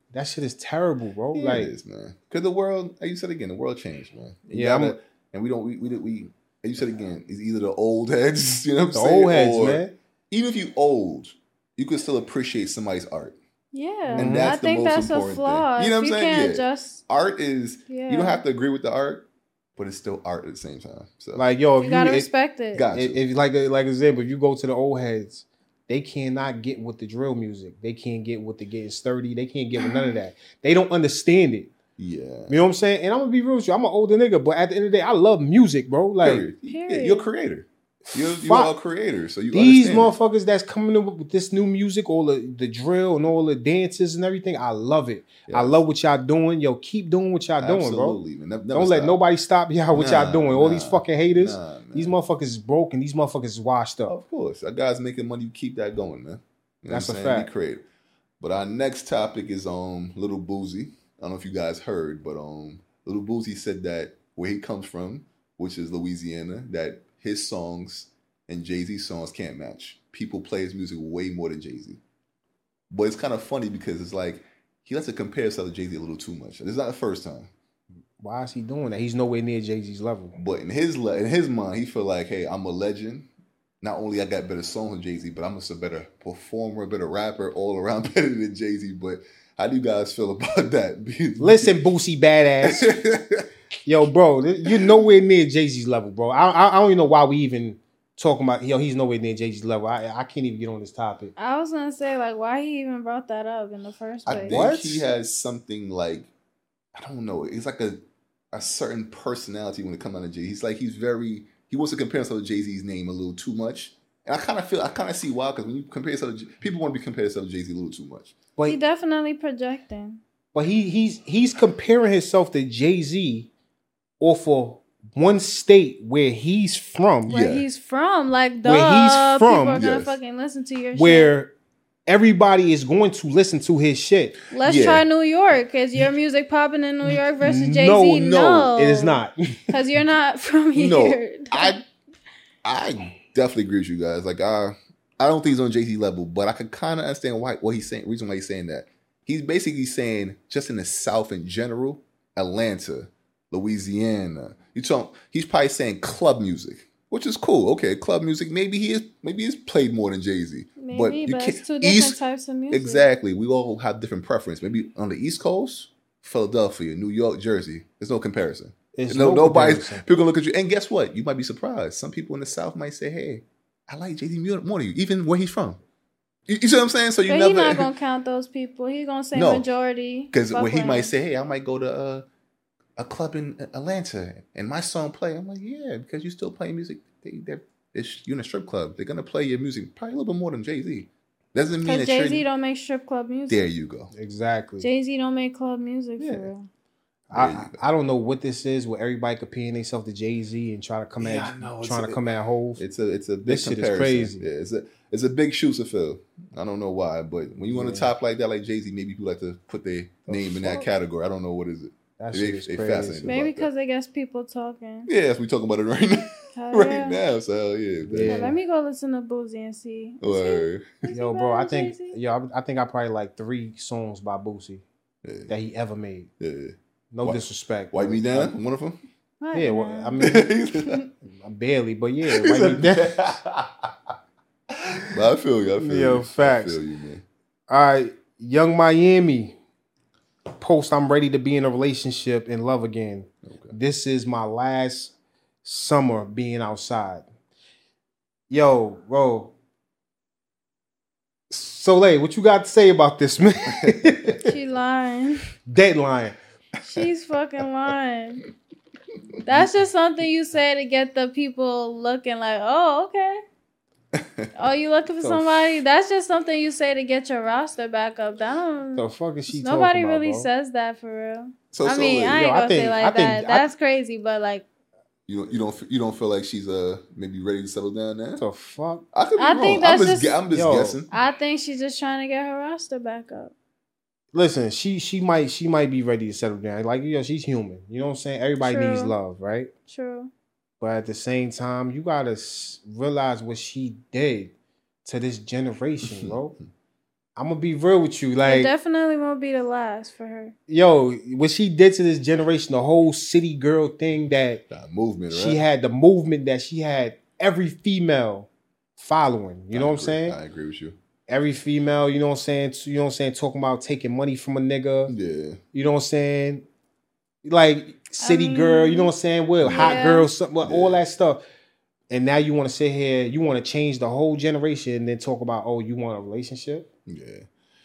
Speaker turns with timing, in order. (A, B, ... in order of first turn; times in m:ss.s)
0:00.1-0:01.7 A
0:01.3-0:13.4 B
0:04.5-0:05.0 A
0:08.9-0:09.9 A
0:13.7-0:17.0 C
0:14.1-0:14.5 A
0:14.1-0:21.4 B
0:17.9-0:18.4 C
0:21.4-0:22.3 A
0:21.8-0:22.8 C
0:22.7-0:23.2 B
0:22.9-0:31.7 A
0:29.8-0:30.2 C
0:32.0-0:32.6 B
0:32.5-0:36.4 A
0:36.2-0:40.1 B
0:36.7-0:37.3 C
0:38.1-0:38.7 A
0:39.5-0:48.2 A
0:45.5-0:45.8 B
0:47.6-0:49.2 B
0:48.7-0:54.1 A
0:49.9-0:52.1 B
0:54.1-0:57.8 B
0:56.9-0:57.5 A
0:58.4-1:12.0 B
1:12.9-1:17.5 B
1:18.2-1:20.4 A
1:20.4-1:23.3 B
1:23.8-1:31.8 B
1:31.4-1:33.0 A
1:32.6-1:33.5 B
1:33.8-1:41.3 A
1:41.4-1:44.6 C
1:44.2-1:46.3 B
1:44.4-1:45.0 A
1:46.9-1:48.0 B
1:48.5-1:58.3 B
1:58.7-2:00.2 C
2:00.5-2:03.5 A
2:04.2-2:07.3 A
2:07.3-2:07.6 B
2:07.3-2:11.3 C
2:08.6-2:09.8 A
2:09.8-2:10.2 B
2:10.9-2:11.5 A
2:12.1-2:14.4 A
2:14.5-2:21.7 C
2:14.6-2:15.0 B
2:17.0-2:19.7 A
2:20.7-2:21.8 B
2:22.6-2:42.2 B
2:40.8-2:43.0 C
2:42.7-2:55.8 B
2:48.9-2:50.0 A
2:56.5-2:57.9 B
2:57.3-3:01.1 C
2:59.3-2:59.6 B
3:00.3-3:02.2 B
3:03.0-3:12.4 B
3:11.8-3:13.7 C
3:13.5-3:14.1 B
3:14.1-3:14.9 A
3:14.8-3:16.7 C
3:17.3-3:17.8 B
3:17.3-3:22.8 A
3:21.2-3:22.2 B
3:22.8-3:33.7 B
3:23.4-3:24.4 A
3:27.7-3:28.1 A
3:30.3-3:30.9 A
3:32.2-3:33.3 A
3:33.2-3:35.1 C
3:35.1-3:38.5 B
3:36.5-3:37.2 C
3:38.0-3:38.6 A
3:38.2-3:42.2 C
3:40.2-3:41.0 B
3:41.1-3:44.8 A
3:45.2-3:45.5 B
3:45.5-3:46.3 A
3:46.4-3:49.0 B
3:47.1-3:48.6 A
3:49.4-3:50.3 C
3:49.5-3:50.5 A
3:50.2-3:51.1 B
3:51.3-3:53.3 A
3:52.2-3:53.9 B
3:54.7-3:57.2 B
3:55.8-3:56.8 A
3:57.7-3:59.6 A
4:00.6-4:07.2 A
4:03.4-4:03.7 B
4:08.5-4:09.5 A
4:11.5-4:14.5 A
4:13.7-4:14.3 B
4:14.4-4:15.5 C
4:15.7-4:16.4 A
4:16.8-4:18.4 C
4:19.4-4:23.4 C
4:24.1-4:24.5 B
4:24.5-4:34.6 C
4:25.2-4:25.7 A
4:28.9-4:30.5 A
4:31.7-4:32.4 B
4:32.3-4:33.7 A
4:35.3-4:38.4 B
4:38.4-4:39.0 A
4:39.1-4:41.1 B
4:39.4-4:40.4 C
4:40.5-4:41.0 A
4:41.1-4:43.5 C
4:44.3-4:49.7 A
4:48.6-4:49.1 C
4:49.9-4:50.3 C
4:50.8-4:54.5 A
4:55.0-4:56.6 A
4:56.0-4:56.4 B
4:57.4-4:58.7 A
4:58.4-5:00.5 C
5:00.7-5:04.6 A
5:04.7-5:05.6 B
5:05.3-5:10.4 A
5:09.7-5:11.0 B
5:11.3-5:15.1 A
5:15.1-5:15.6 B
5:15.7-5:16.6 A
5:17.4-5:21.4 A
5:18.2-5:19.1 C
5:19.6-5:20.0 B
5:19.7-5:20.3 C
5:20.6-5:21.0 B
5:22.1-5:26.9 A
5:27.0-5:27.5 B